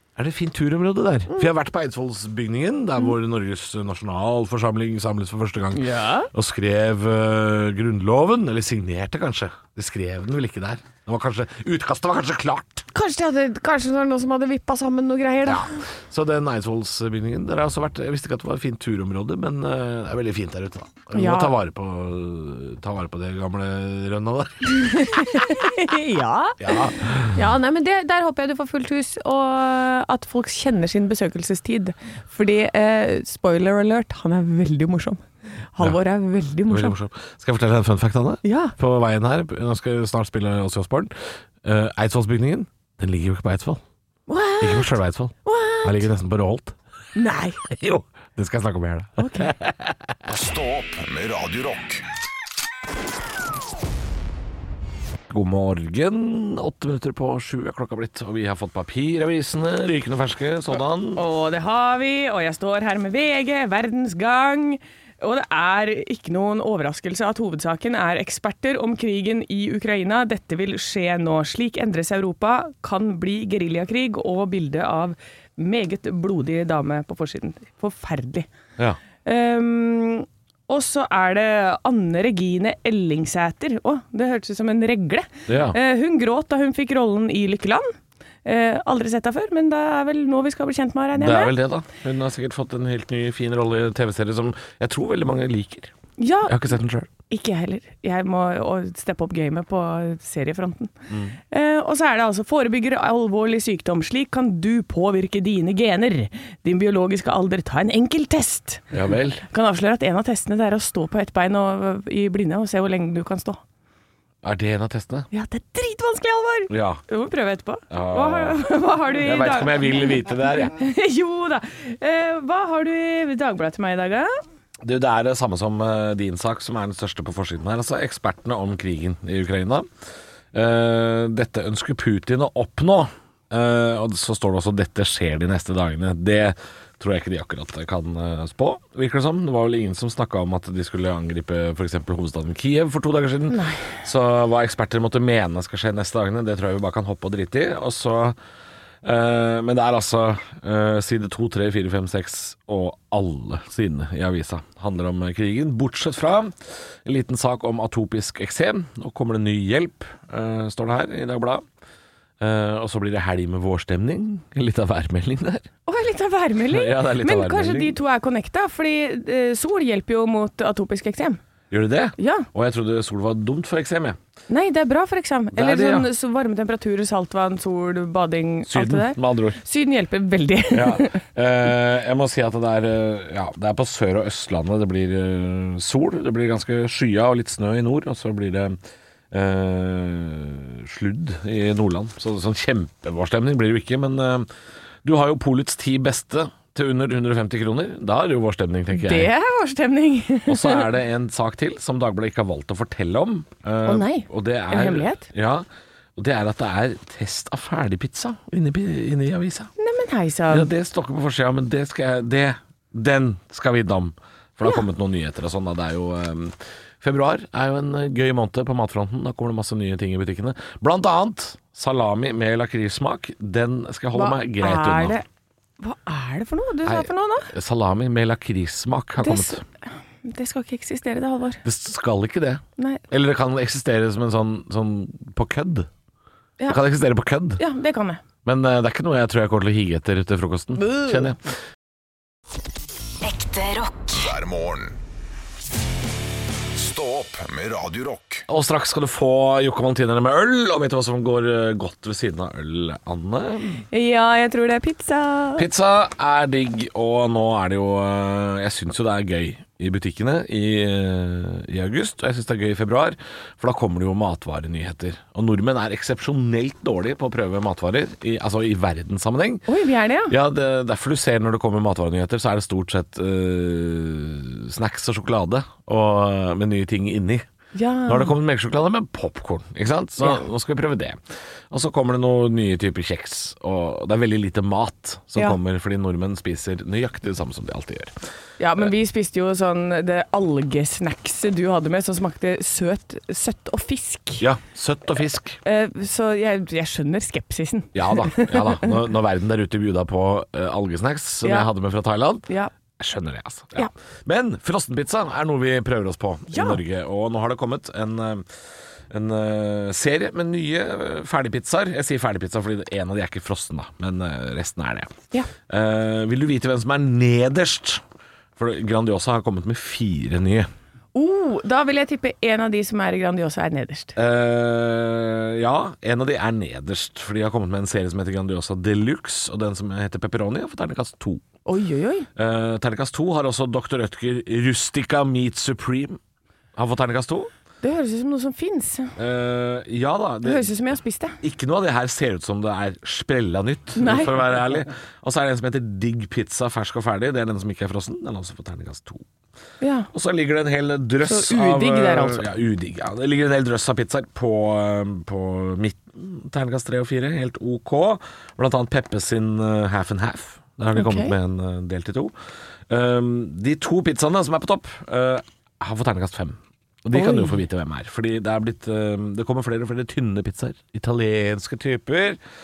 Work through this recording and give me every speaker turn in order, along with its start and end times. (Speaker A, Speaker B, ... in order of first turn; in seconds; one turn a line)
Speaker A: 0.2-12.9
Speaker B: 5.7-6.3
Speaker B: 12.9-15.8
Speaker A: 15.4-25.4
Speaker B: 21.1-21.5
Speaker B: 24.7-37.0
Speaker A: 26.6-27.4
Speaker A: 36.7-43.8
Speaker B: 38.4-38.7
Speaker B: 44.3-46.1
Speaker A: 44.6-46.8
Speaker B: 47.2-47.6
Speaker A: 47.6-50.1
Speaker B: 49.2-49.5
Speaker C: 50.3-52.0
Speaker A: 55.3-61.2
Speaker B: 61.1-78.5
Speaker B: 79.2-87.9
Speaker A: 85.5-85.8
Speaker B: 88.5-91.6
Speaker A: 91.2-95.9
Speaker B: 96.2-96.6
Speaker A: 96.5-97.1
Speaker B: 97.3-100.9
Speaker A: 101.1-101.4
Speaker B: 101.5-108.9
Speaker A: 108.9-109.4
Speaker B: 109.4-113.6
Speaker A: 114.4-115.3
Speaker B: 115.3-124.3
Speaker A: 116.7-117.0
Speaker A: 117.9-120.7
Speaker A: 124.8-129.9
Speaker A: 130.5-148.4
Speaker B: 143.5-143.9
Speaker A: 149.0-161.6
Speaker A: 162.4-165.7
Speaker B: 165.9-171.4
Speaker A: 166.7-168.0
Speaker A: 171.7-174.2
Speaker B: 172.2-172.5
Speaker B: 174.5-181.2
Speaker A: 175.5-176.1
Speaker A: 178.7-179.6
Speaker A: 180.7-188.8
Speaker A: 189.3-194.5
Speaker A: 195.0-199.3
Speaker B: 198.9-200.9
Speaker A: 200.5-209.7
Speaker B: 203.9-205.3
Speaker B: 209.8-210.7
Speaker A: 210.5-225.2
Speaker B: 224.1-225.2
Speaker B: 225.8-227.5
Speaker A: 226.8-229.6
Speaker B: 229.2-229.6
Speaker B: 230.2-231.6
Speaker A: 231.6-235.9
Speaker A: 236.7-237.6
Speaker B: 237.6-238.2
Speaker A: 238.4-241.4
Speaker B: 240.8-241.3
Speaker C: 243.2-245.0
Speaker C: 246.7-248.5
Speaker A: 248.5-253.8
Speaker B: 253.9-255.7
Speaker A: 255.6-269.7
Speaker B: 269.7-270.4
Speaker A: 270.3-277.5
Speaker B: 277.8-278.4
Speaker A: 278.1-288.1
Speaker B: 288.6-294.4
Speaker A: 294.4-295.6
Speaker B: 295.6-299.0
Speaker A: 297.9-308.5
Speaker B: 301.4-301.7
Speaker B: 306.5-306.8
Speaker A: 309.1-315.1
Speaker A: 315.7-318.0
Speaker A: 318.6-320.7
Speaker B: 321.1-324.2
Speaker A: 324.2-331.4
Speaker B: 331.7-332.3
Speaker A: 332.4-336.2
Speaker A: 336.8-337.5
Speaker B: 337.8-339.1
Speaker A: 339.2-340.7
Speaker B: 340.4-341.4
Speaker A: 341.4-349.3
Speaker B: 344.0-344.3
Speaker B: 349.8-350.1
Speaker A: 350.1-362.3
Speaker B: 351.2-352.5
Speaker B: 360.9-361.3
Speaker A: 362.9-372.4
Speaker B: 367.1-367.6